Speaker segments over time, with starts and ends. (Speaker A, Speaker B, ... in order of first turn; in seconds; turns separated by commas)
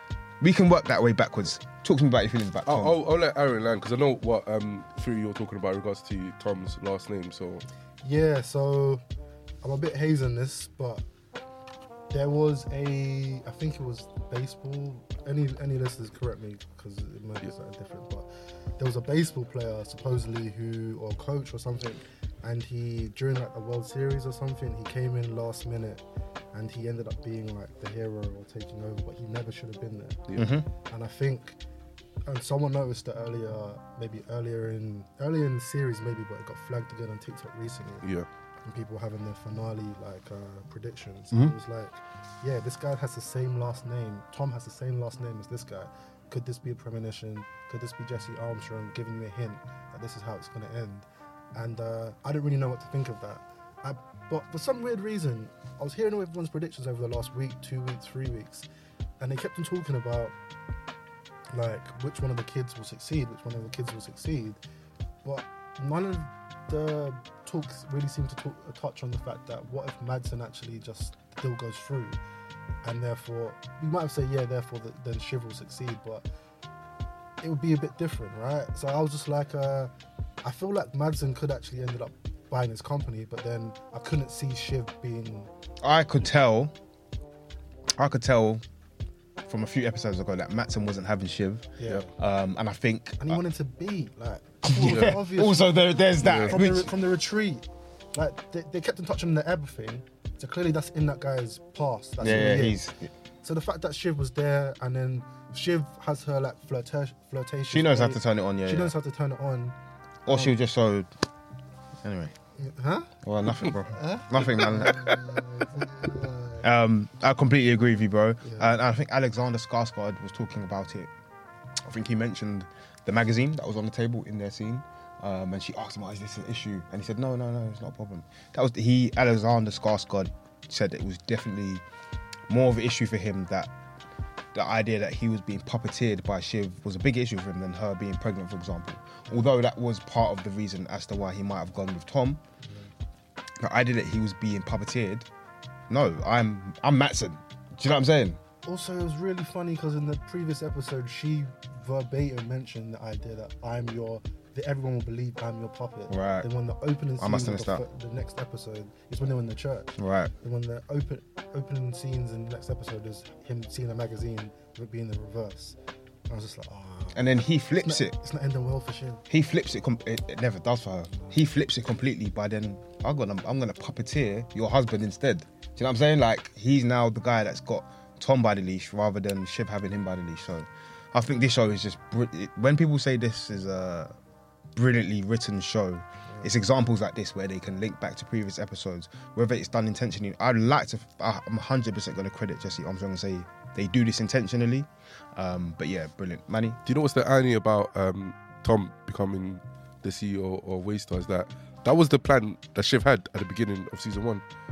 Speaker A: 0.4-3.0, Speaker B: 2.6-7.6, Speaker C: 8.0-9.0, Speaker C: 9.6-11.0, Speaker C: 12.1-30.2, Speaker A: 30.4-30.6, Speaker C: 30.9-31.6, Speaker C: 32.2-38.1, Speaker C: 38.6-58.6, Speaker C: 59.2-60.3, Speaker C: 61.5-64.6, Speaker C: 65.2-72.2, Speaker C: 72.8-76.2, Speaker C: 77.4-79.9, Speaker C: 80.4-85.5, Speaker A: 85.8-86.7, Speaker A: 88.0-88.6, Speaker A: 89.5-93.4, Speaker C: 91.8-92.1, Speaker C: 93.2-102.8, Speaker A: 94.6-96.9, Speaker B: 94.8-95.1, Speaker B: 96.2-96.5, Speaker A: 102.2-103.1, Speaker C: 103.4-109.8, Speaker A: 107.7-108.9, Speaker A: 110.2-111.1, Speaker C: 110.3-110.5, Speaker A: 112.0-112.3, Speaker C: 112.6-113.1, Speaker A: 113.2-115.8, Speaker C: 113.9-116.7, Speaker A: 116.6-121.1, Speaker C: 118.4-118.7, Speaker A: 121.8-131.8, Speaker A: 132.5-133.7, Speaker A: 134.5-142.4, Speaker C: 142.6-142.9, Speaker A: 143.6-145.3, Speaker A: 145.9-148.4, Speaker C: 148.6-165.8, Speaker A: 156.1-156.5, Speaker A: 157.2-157.8, Speaker A: 160.0-160.3, Speaker C: 166.3-169.2, Speaker A: 167.1-168.1, Speaker A: 169.3-184.1, Speaker A: 184.8-196.8, Speaker C: 186.3-186.5, Speaker B: 196.8-204.4